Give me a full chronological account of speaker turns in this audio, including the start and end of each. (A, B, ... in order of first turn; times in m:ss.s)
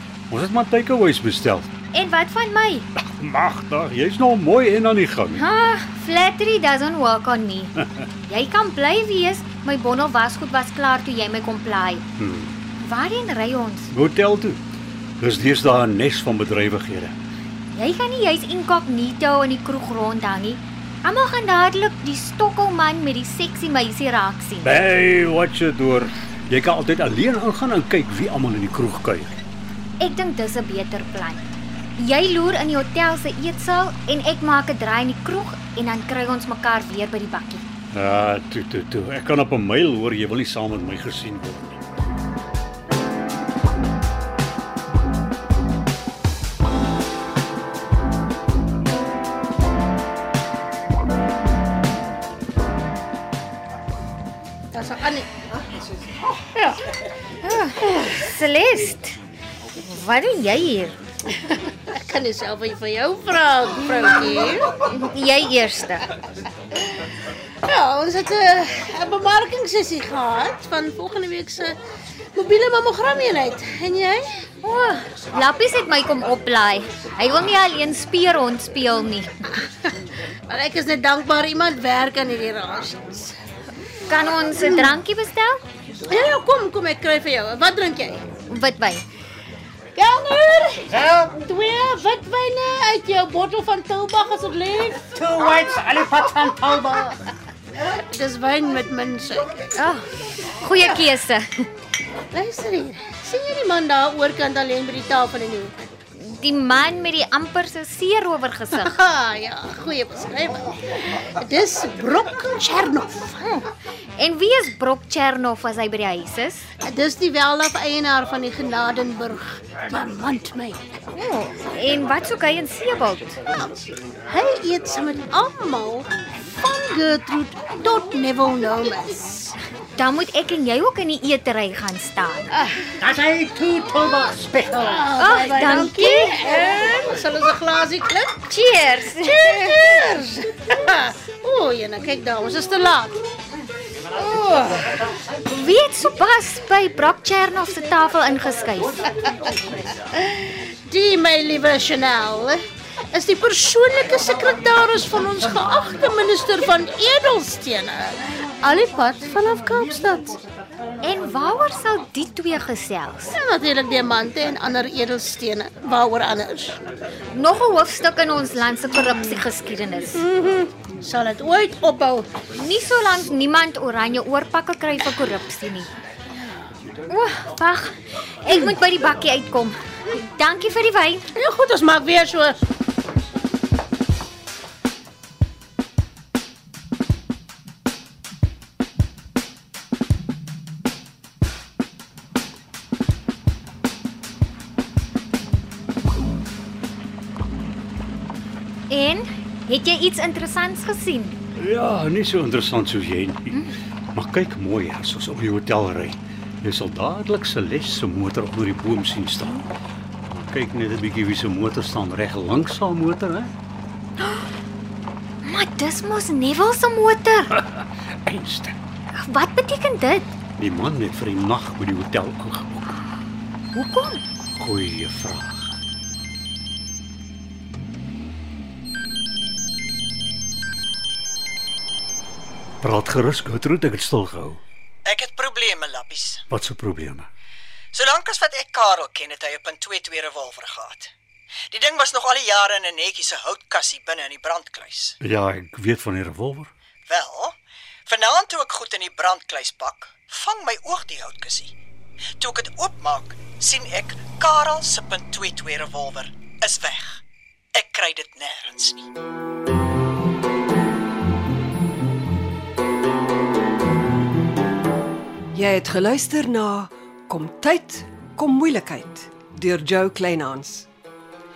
0:00.3-0:01.7 A
0:01.9-0:02.9 B
0:03.0-0:05.4 A
0:05.3-0:12.0 B
0:12.2-0:12.6 A
0:12.8-0:13.9 B
0:13.9-0:14.6 A
0:15.2-0:17.1 A
0:17.7-0:24.8 B
0:24.6-0:29.4 A
0:30.0-0:31.5 B
0:32.0-0:37.6 B
0:37.9-0:41.9 A
0:54.7-0:55.3 C
0:55.5-0:56.2 D
0:56.5-0:56.8 C
0:57.4-0:59.2 B
0:59.8-1:01.0 B
1:01.3-1:04.7 C
1:04.8-1:06.1 B
1:06.7-1:07.0 C
1:07.6-1:11.8 C
1:12.4-1:14.4 C
1:14.6-1:19.6 B
1:20.5-1:23.4 C
1:24.1-1:25.6 B
1:24.6-1:24.9 C
1:26.0-1:28.2 C
1:28.5-1:29.0 B
1:30.0-1:39.6 C
1:39.7-1:41.7 B
1:42.3-1:45.8 C
1:46.2-1:48.9 B
1:48.8-1:53.4 C
1:53.4-1:56.7 B
1:56.8-2:00.8 C
2:01.1-2:03.4 B
2:03.5-2:09.6 C
2:10.0-2:12.5 B
2:12.5-2:13.8 C
2:13.2-2:14.6 A
2:14.7-2:18.4 C
2:15.2-2:16.5 B
2:18.5-2:19.5 B
2:19.2-2:23.2 C
2:24.1-2:24.9 C
2:25.5-2:29.1 B
2:30.1-2:32.6 C
2:33.1-2:40.4 C
2:41.0-2:43.4 B
2:43.3-2:46.8 C
2:47.3-2:50.2 B
2:50.2-2:52.3 C
2:52.6-2:55.9 B
2:57.1-3:01.3 B
3:01.4-3:02.6 C
3:18.9-3:21.4 B
3:21.6-3:29.6 A
3:30.2-3:33.5 A
3:34.2-3:34.5 B
3:35.4-3:37.5 B
3:37.6-3:38.8 A
3:39.1-3:40.3 B
3:40.6-3:43.0 A
3:43.7-3:44.2 B
3:44.6-3:45.8 A
3:52.8-3:54.6 A
3:55.0-3:56.4 D
3:56.5-3:57.3 A
3:57.9-4:01.1 D
4:01.7-4:05.2 D
4:05.2-4:06.7 A
4:07.1-4:07.6 D
4:08.1-4:11.8 D
4:12.4-4:17.2 D
4:17.8-4:19.0 D
4:25.5-4:30.9 E